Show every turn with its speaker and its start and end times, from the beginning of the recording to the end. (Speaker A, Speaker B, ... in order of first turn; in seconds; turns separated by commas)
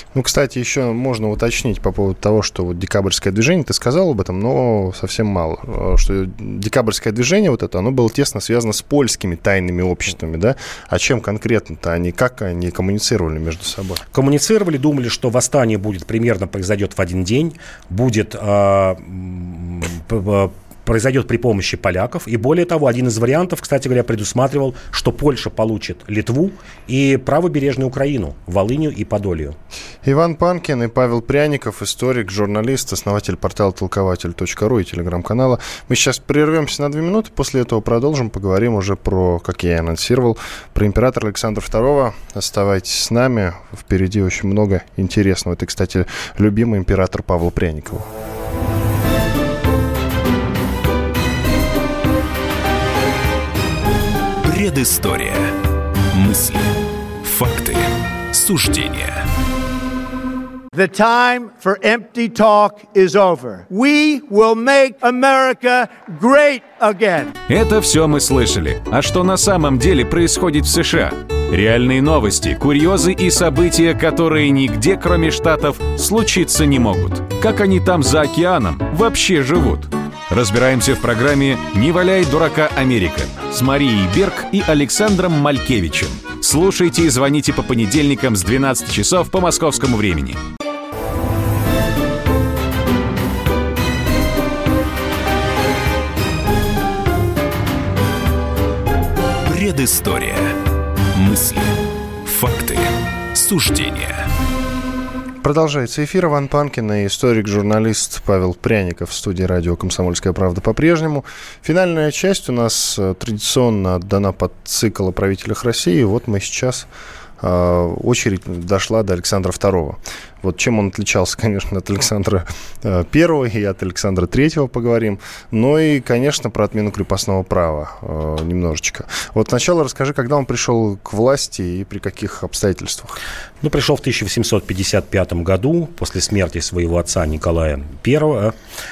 Speaker A: 0.1-14.0, Speaker B: 14.1-29.6, Speaker A: 30.0-48.1, Speaker C: 54.4-55.6, Speaker C: 56.1-59.3, Speaker D: 60.7-67.3, Speaker E: 67.5-90.4, Speaker C: 99.4-100.6, Speaker C: 101.1-104.3, Speaker A: 105.4-116.9, Speaker A: 117.4-133.2, Speaker B: 133.6-138.5